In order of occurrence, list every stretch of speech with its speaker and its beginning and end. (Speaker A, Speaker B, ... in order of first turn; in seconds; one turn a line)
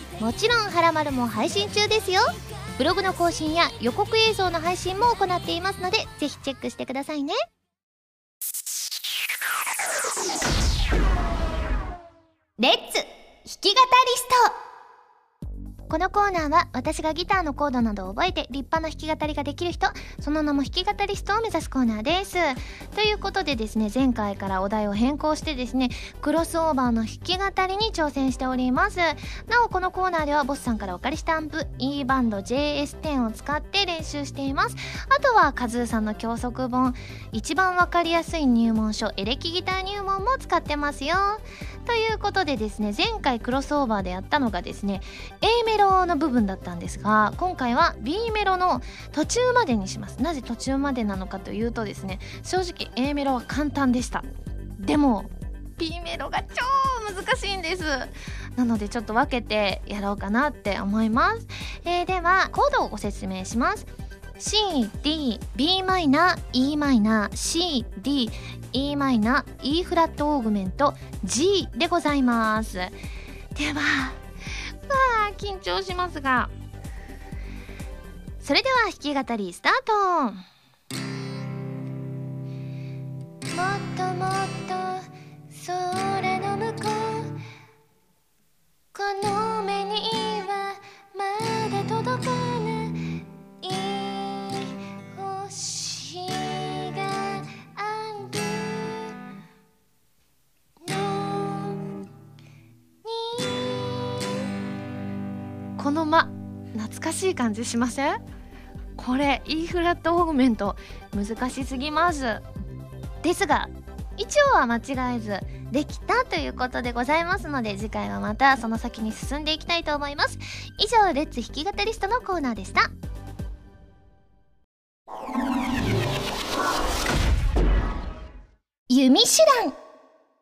Speaker A: 0.2-7.4
Speaker A: 12.6-14.5
Speaker A: 15.9-54.2
Speaker A: 54.8-63.9
Speaker A: 64.4-72.9
Speaker A: 73.5-74.2
Speaker A: 74.9-76.5
Speaker A: 78.4-80.4
Speaker A: 83.5-87.3
Speaker A: 88.9-99.0
Speaker A: 100.8-101.9
Speaker A: 103.0-104.4
Speaker A: 105.8-108.2
Speaker A: 109.0-112.4
Speaker A: 113.2-122.9
Speaker A: 128.9-129.7